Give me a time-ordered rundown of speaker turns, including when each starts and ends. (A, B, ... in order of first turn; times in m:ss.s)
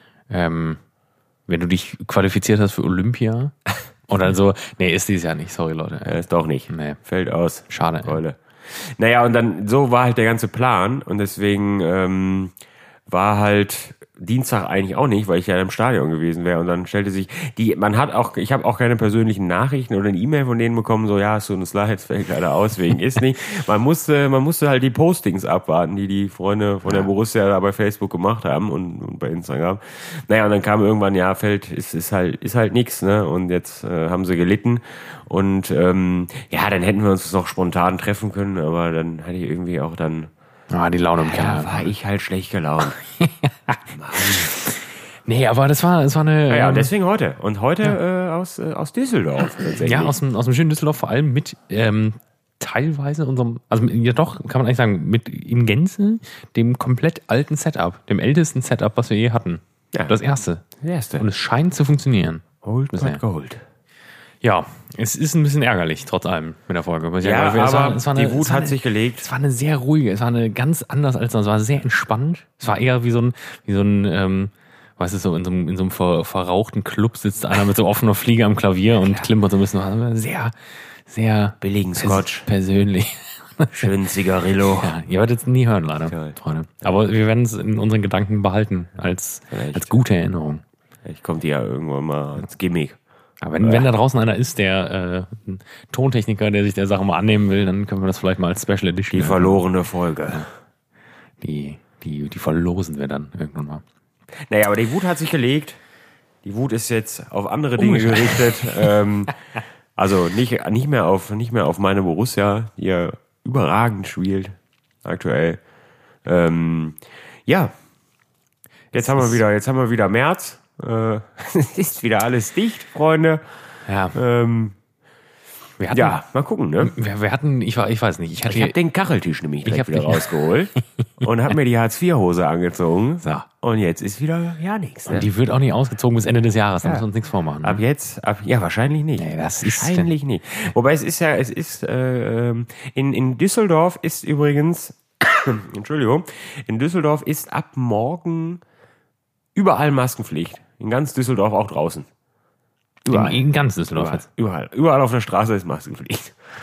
0:00.3-0:00.8 A
0:01.5-0:03.5 A
0:04.1-0:07.0 A
0:06.1-0:12.5 B
0:07.7-0:08.2 A
0:13.1-0:40.3 B
0:40.7-0:41.9 A
0:41.2-0:43.0 B
0:43.2-0:46.9 A
0:43.9-0:44.5 B
0:46.5-0:50.2 B
0:49.8-1:00.7 A
1:00.8-1:01.3 B
1:01.2-1:03.2 A
1:02.6-1:03.6 B
1:04.4-1:20.5 A
1:07.2-1:09.3 B
1:19.0-1:19.3 B
1:21.1-1:23.9 A
1:21.6-1:22.5 B
1:23.7-1:25.0 B
1:24.6-1:30.6 A
1:26.0-1:27.0 B
1:29.5-1:29.9 B
1:31.0-1:33.0 B
1:33.4-1:39.6 A
1:33.6-1:33.9 B
1:39.1-1:40.5 B
1:41.4-1:43.8 A
1:44.5-1:45.8 B
1:46.4-1:49.3 B
1:47.8-1:49.0 A
1:50.0-1:55.6 B
1:56.2-1:57.7 B
1:58.9-2:03.4 B
1:59.0-1:59.4 A
2:03.9-2:04.2 A
2:04.1-2:04.8 B
2:05.8-2:06.2 A
2:05.9-2:07.0 B
2:06.8-2:08.7 A
2:08.5-2:15.3 B
2:09.7-2:10.8 A
2:15.1-2:17.8 A
2:17.6-2:28.6 B
2:19.2-2:20.1 A
2:29.6-2:32.1 B
2:33.0-2:33.4 B
2:33.1-2:34.3 A
2:34.0-2:36.4 B